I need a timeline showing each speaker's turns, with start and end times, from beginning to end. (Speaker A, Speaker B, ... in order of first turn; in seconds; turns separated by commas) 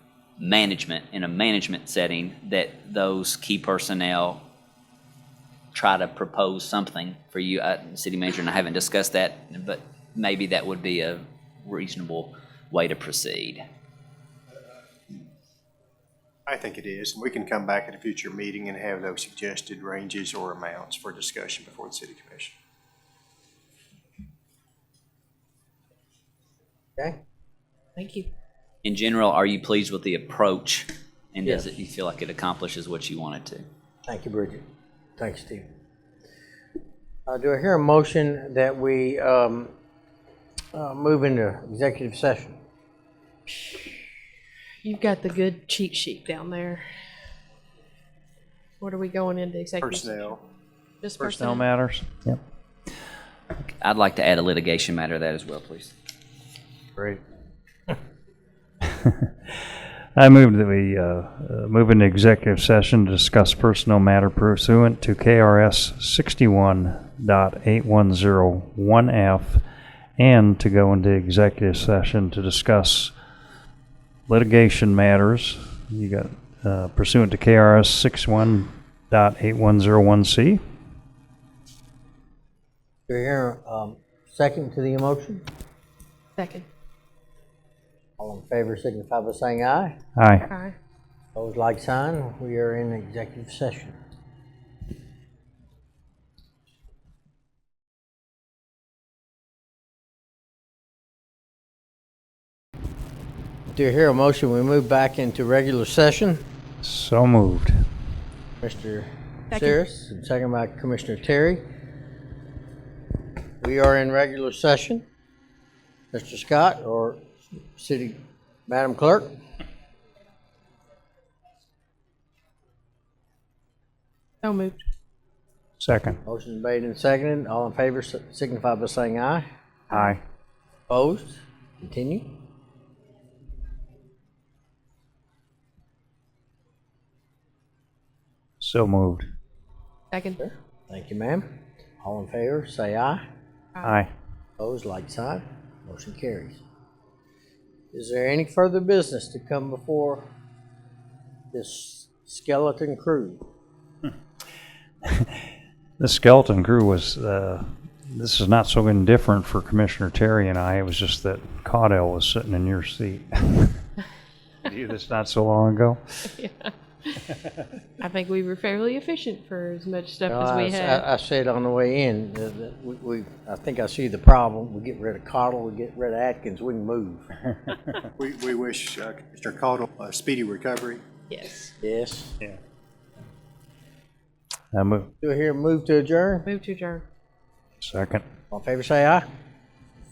Speaker A: 0.4-4.4, Speaker A: 5.7-13.6, Speaker B: 16.5-22.5, Speaker C: 27.9-28.3, Speaker A: 28.8-33.6, Speaker D: 34.0-34.6, Speaker D: 35.2-35.6, Speaker D: 37.3-39.7, Speaker D: 40.7-42.6, Speaker C: 44.8-46.8, Speaker C: 48.8-50.4, Speaker B: 49.8-50.4, Speaker C: 51.0-51.6, Speaker E: 51.2-52.4, Speaker A: 53.8-55.9, Speaker E: 58.8-59.6, Speaker E: 60.1-69.6, Speaker E: 70.2-73.1, Speaker E: 74.3-80.6, Speaker D: 83.1-85.4, Speaker C: 86.4-86.7, Speaker D: 88.2-90.0, Speaker E: 90.2-90.5, Speaker C: 90.5-90.7, Speaker D: 91.3-94.0, Speaker D: 103.7-106.4, Speaker E: 106.8-107.7, Speaker D: 108.6-111.6, Speaker D: 113.6-115.0, Speaker D: 116.1-119.3, Speaker C: 124.4-124.8, Speaker E: 125.8-126.2, Speaker D: 126.2-129.4, Speaker E: 129.9-130.2, Speaker D: 130.9-132.3, Speaker E: 138.6-139.3, Speaker C: 140.1-140.4, Speaker D: 140.4-141.5, Speaker D: 142.0-143.2, Speaker E: 143.8-144.1, Speaker D: 144.6-146.6, Speaker D: 147.9-150.3, Speaker D: 151.5-153.4, Speaker E: 155.1-155.4, Speaker E: 156.0-163.9, Speaker E: 164.6-166.4, Speaker C: 166.3-167.2, Speaker C: 168.0-171.0, Speaker D: 170.3-177.3, Speaker B: 178.2-181.0, Speaker C: 181.3-181.7, Speaker D: 181.8-182.3, Speaker E: 184.7-185.1, Speaker D: 185.2-186.5, Speaker C: 186.4-187.1, Speaker E: 187.8-188.2, Speaker D: 188.5-189.2